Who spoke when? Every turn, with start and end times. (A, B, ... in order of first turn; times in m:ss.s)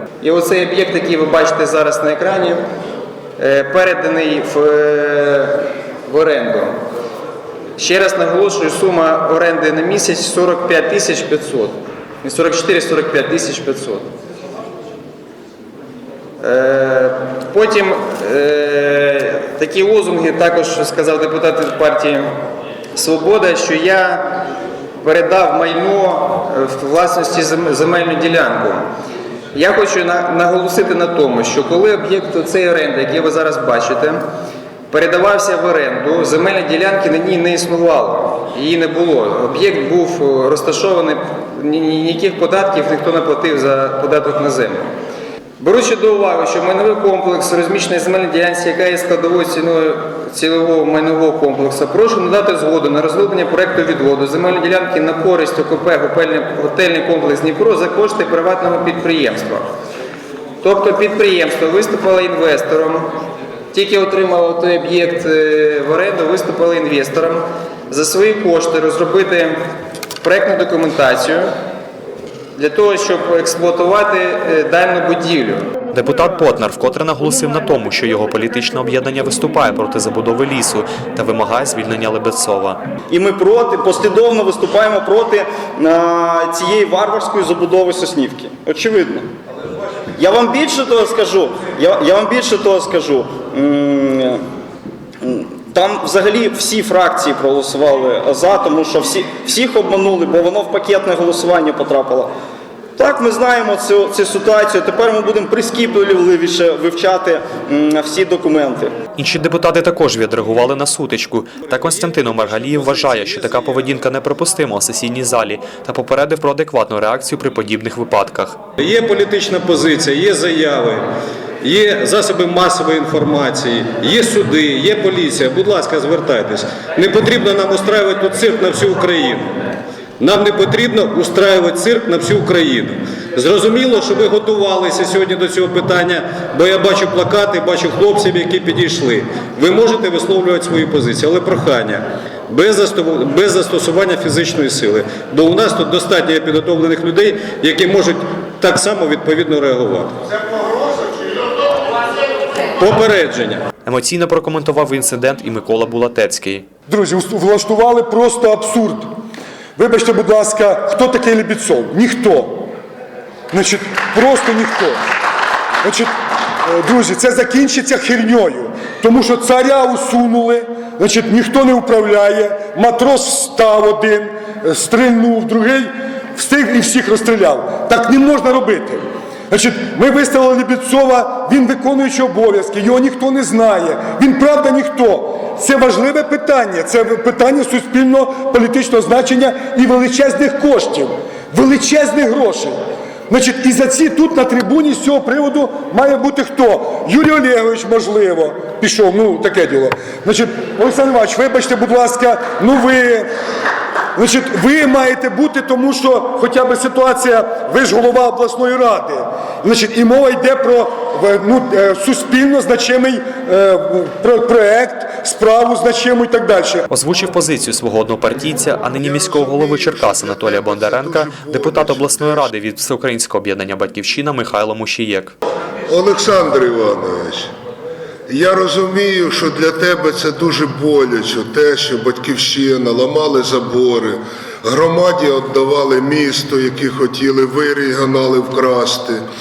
0:00.2-0:02.6 A
0:03.4-0:06.7 A
0:07.8-0:14.1 A
0:16.4-0:22.3 A
0:22.9-0:24.5 A
0:25.0-0:28.8 A
0:29.5-0:34.2 A
0:34.9-0:44.9 A
0:45.6-0:59.7 A
1:00.6-1:03.1 A
1:03.7-1:09.6 A
1:10.2-1:11.5 A
1:12.6-1:15.6 A
1:15.9-1:22.8 B
1:23.1-1:29.3 C
1:30.2-1:34.4 C
1:35.2-1:42.3 C
1:43.0-1:49.0 C
1:49.2-1:58.6 B
1:51.7-1:53.9 D
1:58.8-2:01.0 D
2:01.6-2:09.5 D
2:10.2-2:30.1 D
2:32.8-2:33.6 D
2:33.8-2:36.6 B
2:36.9-2:39.1 E
2:39.8-2:42.7 E
2:43.5-2:45.0 E
2:45.8-2:46.1 E
2:46.6-3:12.8 E
3:13.3-3:23.3 E
3:24.2-3:36.9 E
3:36.9-3:45.3 B
3:39.0-3:42.5 F
3:45.9-3:47.5 F
3:48.3-3:59.2 F